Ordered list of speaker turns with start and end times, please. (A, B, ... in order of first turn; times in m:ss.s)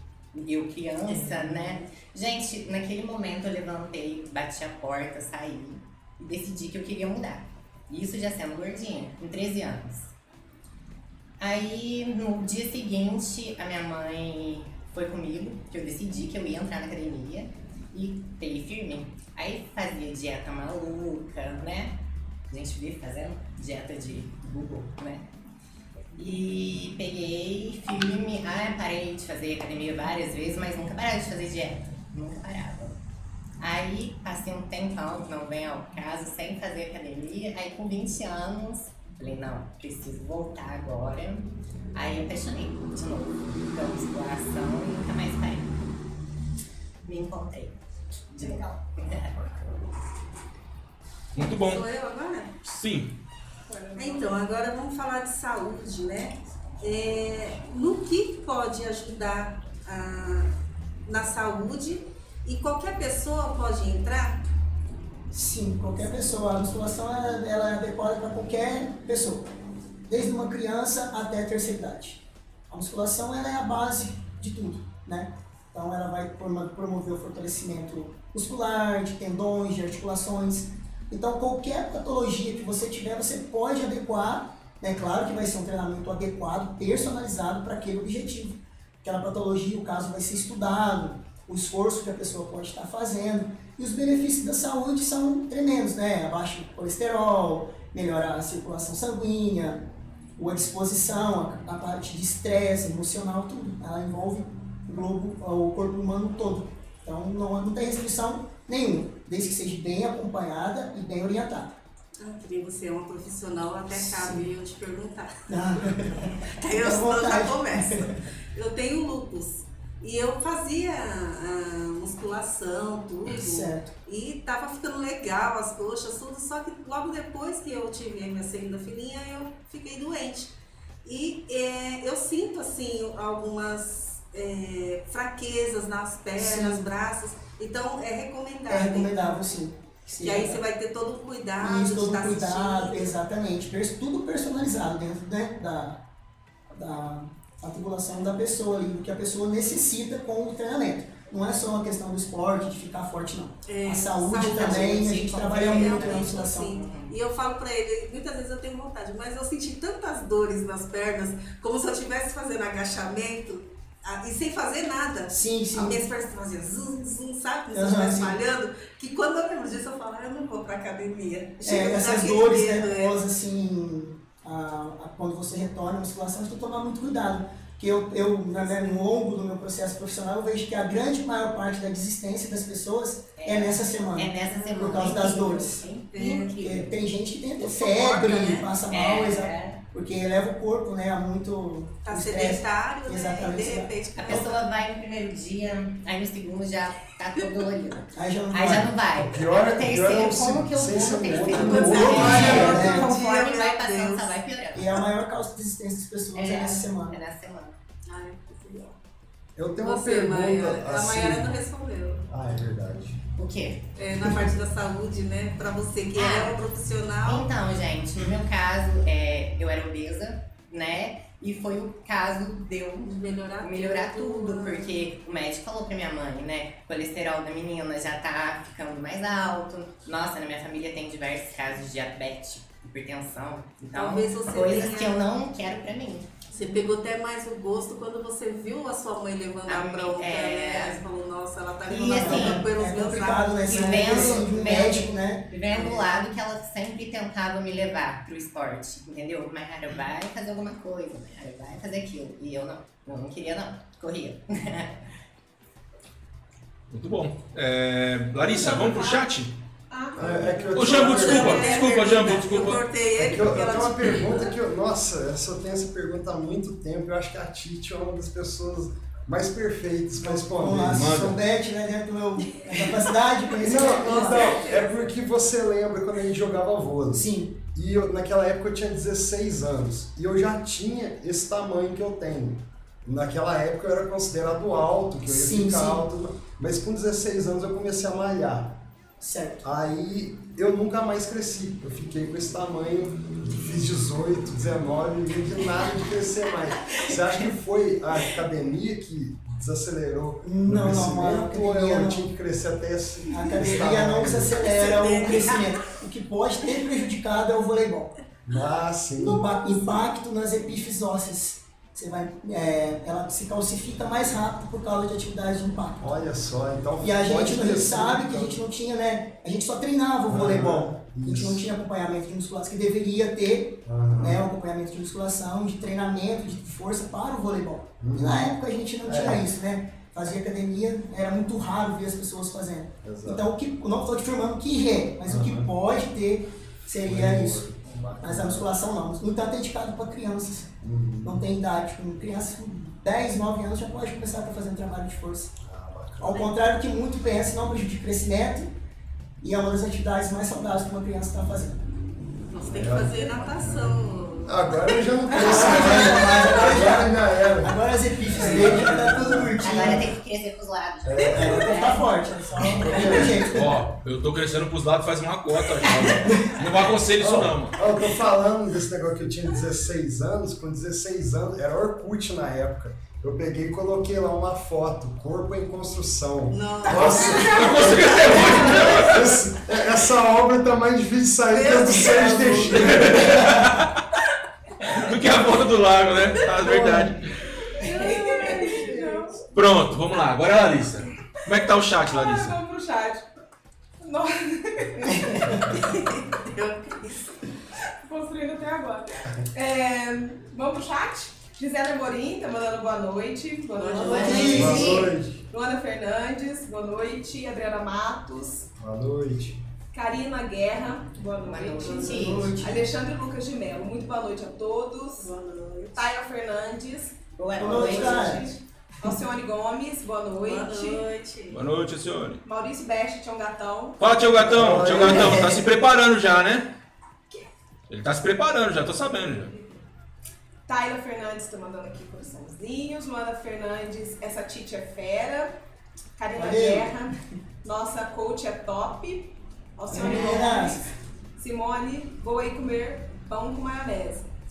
0:00.3-0:10.1 A
0:11.4-0:22.0 A
0:22.5-0:25.3 A
0:26.1-0:33.0 A
0:33.6-0:45.7 A
0:47.0-0:47.8 A
0:48.3-0:49.5 A
0:48.4-0:48.8 B
0:51.3-0:51.8 C
0:51.6-0:52.5 D
0:52.6-0:53.1 C
0:53.7-0:54.3 B
0:54.0-1:00.5 D
1:01.0-1:04.4 D
1:05.3-1:09.5 E
1:10.1-1:39.8 E
1:40.4-1:51.8 E
1:52.2-1:55.4 D
1:53.9-1:54.5 E
1:55.5-1:58.2 E
1:56.5-2:19.4 D
2:03.3-2:03.9 E
2:16.4-2:16.9 E
2:18.7-2:20.6 E
2:20.2-2:23.2 D
2:21.6-2:26.0 E
2:26.7-2:36.8 E
2:33.6-2:53.2 D
2:34.4-2:37.1 A
2:45.3-2:46.0 E
2:47.7-2:48.4 E
2:51.6-3:14.5 E
3:03.4-3:06.1 A
3:04.5-3:05.2 D
3:06.1-3:06.9 D
3:07.8-3:08.6 D
3:07.8-3:09.8 A
3:12.0-3:14.6 D
3:14.1-3:25.0 A
3:18.1-3:18.9 E
3:19.2-3:23.0 F
3:21.5-3:24.3 D
3:21.6-3:23.2 E
3:24.7-3:27.2 E
3:26.3-3:27.7 A
3:28.1-3:28.9 D
3:29.6-3:31.5 F
3:29.8-3:32.2 D
3:32.3-3:33.2 F
3:33.4-3:33.8 A
3:34.0-3:37.5 D
3:36.1-3:36.6 A
3:37.2-3:56.3 A
3:43.0-3:45.0 D
3:53.9-3:55.3 D
3:56.5-4:04.5 D
3:59.6-4:01.0 A
4:01.9-4:02.6 A
4:01.9-4:05.5 E
4:03.6-4:15.0 A
4:05.7-4:06.0 D
4:16.9-4:19.5 C
4:18.6-4:19.2 B
4:19.9-4:20.7 B
4:20.2-4:21.6 F
4:20.4-4:24.5 D
4:20.7-4:22.8 C
4:23.2-4:31.4 F
4:30.2-4:34.7 E
4:30.9-4:31.4 C
4:33.6-4:48.8 F
4:33.8-4:34.9 D
4:37.1-4:37.6 E
4:45.3-4:46.0 E
4:49.2-4:49.6 E
4:49.6-5:04.6 F
5:00.4-5:02.3 E
5:03.3-5:08.1 E
5:04.5-5:05.8 D
5:08.4-5:09.6 F
5:09.2-5:16.1 E
5:16.0-5:18.6 F
5:17.0-5:37.6 E
5:20.3-5:21.6 F
5:23.8-5:24.4 F
5:28.0-5:28.5 F
5:29.0-5:29.5 F
5:33.0-5:33.5 F
5:35.2-5:35.7 F
5:37.0-5:38.7 F
5:38.2-5:40.7 E
5:40.8-5:41.5 F
5:41.2-5:45.5 E
5:45.6-5:46.5 F
5:46.2-5:48.7 E
5:49.4-5:51.8 E
5:52.5-5:56.2 D
5:52.7-6:00.1 F
5:55.3-6:00.1 E
5:59.6-6:02.1 A
6:01.0-6:01.7 F
6:01.2-6:01.8 D
6:01.3-6:03.8 E
6:02.6-6:03.6 F
6:03.0-6:07.8 C
6:06.1-6:06.5 E
6:07.2-6:23.3 F
6:16.5-6:19.1 D
6:17.2-6:19.4 C
6:21.5-6:23.5 D
6:22.6-6:24.0 C
6:24.8-6:27.3 C
6:26.6-6:27.1 E
6:27.8-6:29.4 B
6:27.9-6:29.0 D
6:29.5-6:32.6 C
6:32.0-6:33.2 B
6:34.0-6:35.4 B
6:35.7-6:37.3 D
6:38.0-6:48.7 B
6:43.8-6:44.9 D
6:44.0-6:45.1 A
6:44.0-6:45.0 E
6:44.5-6:45.4 F
6:48.8-6:49.6 F
6:49.9-6:55.3 B
6:51.4-6:52.5 A
6:51.8-6:52.1 D
6:52.1-6:52.8 E
6:55.2-6:56.1 D
6:55.9-7:01.0 B
6:57.4-6:58.4 A
6:57.6-6:58.4 E
7:00.4-7:01.6 D
7:01.5-7:02.4 C
7:02.4-7:04.1 B
7:04.0-7:06.7 C
7:04.3-7:05.6 F
7:07.9-7:09.5 C
7:10.7-7:15.5 B
7:16.2-7:24.2 B
7:16.3-7:16.9 E
7:19.9-7:20.8 E